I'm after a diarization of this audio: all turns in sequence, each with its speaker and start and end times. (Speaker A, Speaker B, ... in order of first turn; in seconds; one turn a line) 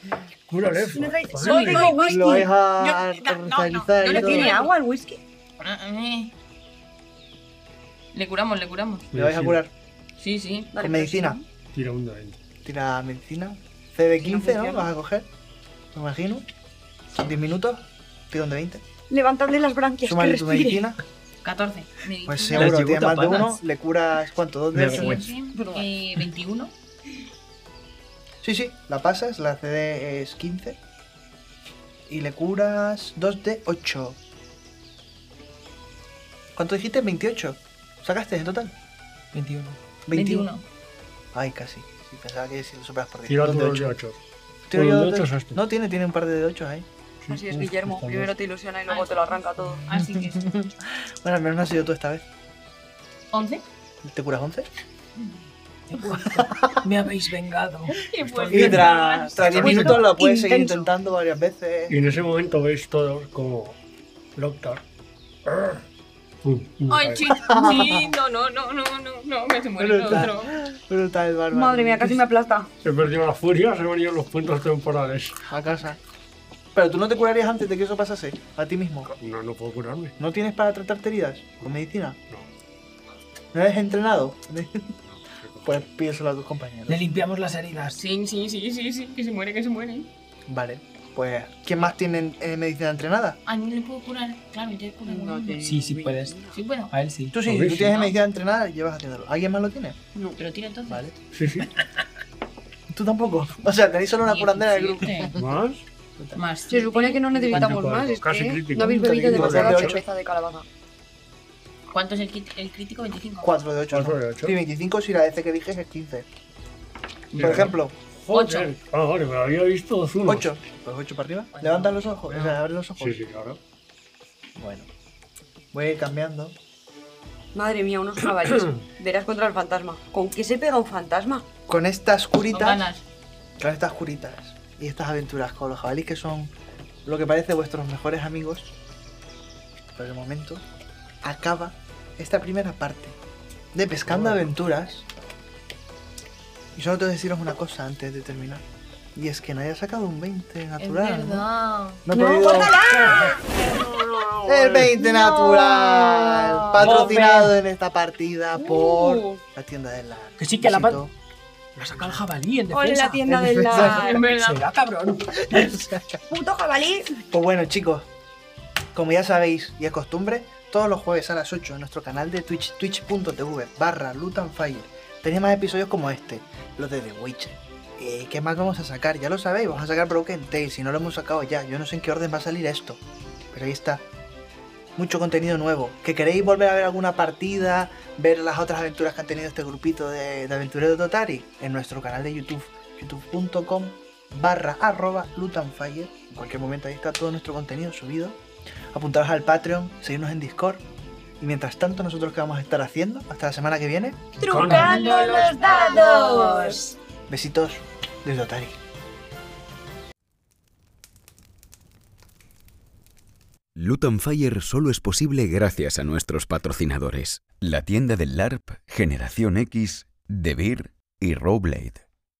Speaker A: 0.5-2.1
Speaker B: 0.6-2.5
Speaker C: 1.4-2.4
Speaker D: 2.0-4.6
Speaker C: 3.0-4.7
Speaker B: 4.0-5.2
Speaker C: 5.6-6.3
Speaker C: 8.1-9.1
Speaker A: 9.1-9.6
Speaker D: 9.1-9.7
Speaker C: 10.2-10.7
Speaker B: 10.7-11.4
Speaker D: 10.8-11.4
Speaker A: 11.7-12.4
Speaker D: 12.6-15.3
Speaker B: 14.2-14.9
Speaker D: 15.9-16.4
Speaker D: 17.1-18.8
Speaker B: 19.1-20.9
Speaker D: 20.0-21.0
Speaker C: 21.4-22.7
Speaker D: 22.2-25.3
Speaker E: 22.5-23.6
Speaker A: 24.8-25.2
Speaker C: 24.9-26.7
Speaker B: 25.5-25.9
Speaker D: 28.4-30.8
Speaker D: 32.1-34.2
Speaker D: 36.5-38.7
Speaker E: 39.3-39.8
Speaker D: 40.1-40.5
Speaker C: 40.1-40.6
Speaker D: 41.3-43.9
Speaker A: 43.3-44.2
Speaker D: 44.7-46.9
Speaker A: 44.7-45.6
Speaker A: 47.2-48.3
Speaker B: 47.3-49.8
Speaker C: 48.9-50.6
Speaker D: 49.9-52.2
Speaker C: 53.3-53.6
Speaker D: 54.0-54.7
Speaker E: 55.9-58.0
Speaker D: 56.1-56.8
Speaker C: 58.0-60.2
Speaker A: 58.4-58.9
Speaker D: 58.4-62.0
Speaker E: 58.5-58.8
Speaker A: 59.4-59.9
Speaker B: 59.6-60.9
Speaker A: 61.9-63.8
Speaker A: 64.3-64.8
Speaker A: 65.5-65.8
Speaker A: 66.4-67.3
Speaker C: 66.9-70.5
Speaker D: 67.3-68.1
Speaker D: 69.8-72.2
Speaker B: 71.5-72.7
Speaker A: 72.8-75.4
Speaker D: 75.5-76.0
Speaker D: 76.7-79.1
Speaker A: 79.0-80.1
Speaker D: 80.2-82.2
Speaker D: 83.5-84.9
Speaker A: 85.0-85.8
Speaker D: 85.6-87.0
Speaker E: 86.9-88.0
Speaker C: 88.0-90.1
Speaker D: 90.5-93.4
Speaker C: 93.5-95.7
Speaker B: 95.1-96.6
Speaker E: 95.6-96.3
Speaker C: 96.5-96.9
Speaker E: 96.9-97.4
Speaker D: 97.3-100.0
Speaker A: 97.4-98.0
Speaker C: 97.7-98.1
Speaker C: 100.3-101.1
Speaker D: 100.9-101.2
Speaker A: 101.3-101.7
Speaker D: 102.9-105.5
Speaker C: 104.2-105.3
Speaker A: 105.3-105.8
Speaker C: 106.3-107.9
Speaker B: 106.7-110.7
Speaker A: 107.5-110.0
Speaker D: 109.0-110.0
Speaker C: 111.9-113.5
Speaker D: 113.4-116.3
Speaker A: 113.9-114.6
Speaker A: 117.3-120.5
Speaker D: 117.4-117.9
Speaker C: 118.3-118.7
Speaker D: 120.2-123.2
Speaker C: 121.5-122.0
Speaker A: 122.3-123.6
Speaker D: 124.5-124.9
Speaker D: 125.7-126.5
Speaker B: 127.5-131.4
Speaker A: 128.4-128.8
Speaker D: 131.7-132.9
Speaker C: 132.4-133.0
Speaker D: 133.6-136.5
Speaker D: 137.0-138.7
Speaker D: 139.9-140.6
Speaker D: 141.2-143.2
Speaker D: 143.7-145.1
Speaker A: 144.1-144.5
Speaker D: 146.7-151.5
Speaker C: 150.8-152.0
Speaker D: 152.0-153.3
Speaker B: 152.1-153.3
Speaker A: 152.8-154.9
Speaker D: 154.5-161.1
Speaker B: 155.0-157.1
Speaker E: 156.8-157.6
Speaker B: 158.6-159.4
Speaker E: 160.4-161.0
Speaker E: 161.8-163.2
Speaker B: 162.7-164.2
Speaker D: 163.2-164.1
Speaker C: 163.7-164.6
Speaker E: 163.8-165.8
Speaker D: 165.4-166.2
Speaker B: 166.3-167.2
Speaker D: 167.3-168.1
Speaker D: 168.9-184.0
Speaker D: 184.9-198.4
Speaker D: 198.9-200.8
Speaker D: 201.4-204.4
Speaker B: 204.4-206.9
Speaker A: 204.5-205.0
Speaker E: 204.5-206.4
Speaker C: 204.6-206.8
Speaker D: 207.3-208.8
Speaker F: 213.7-222.0